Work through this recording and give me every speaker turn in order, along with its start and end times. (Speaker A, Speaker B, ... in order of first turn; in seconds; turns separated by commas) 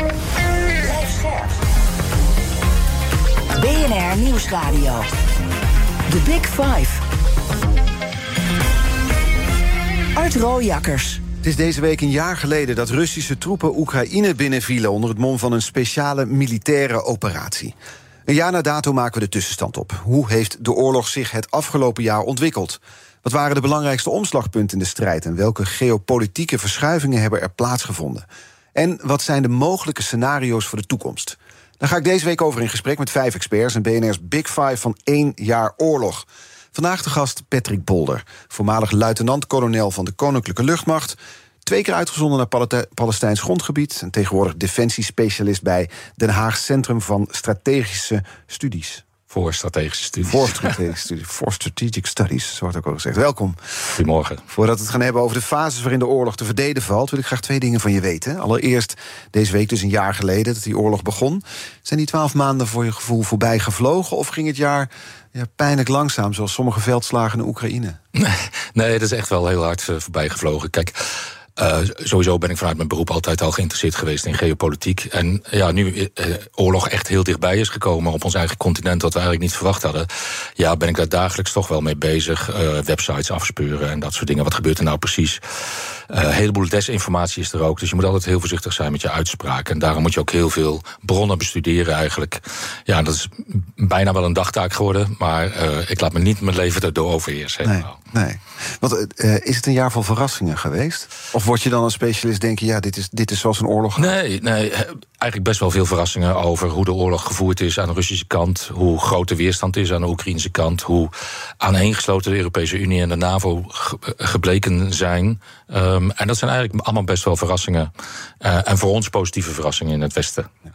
Speaker A: 0.8-1.6, Speaker A: 3.5-5.1, Speaker A: 6.1-7.0, Speaker A: 10.2-11.2, Speaker B: 11.4-49.0, Speaker C: 49.3-50.8, Speaker B: 50.2-53.9, Speaker C: 53.9-54.4, Speaker B: 54.5-68.0, Speaker C: 68.2-85.4, Speaker C: 86.1-98.0, Speaker B: 97.6-104.1, Speaker C: 104.0-117.9, Speaker C: 118.4-120.5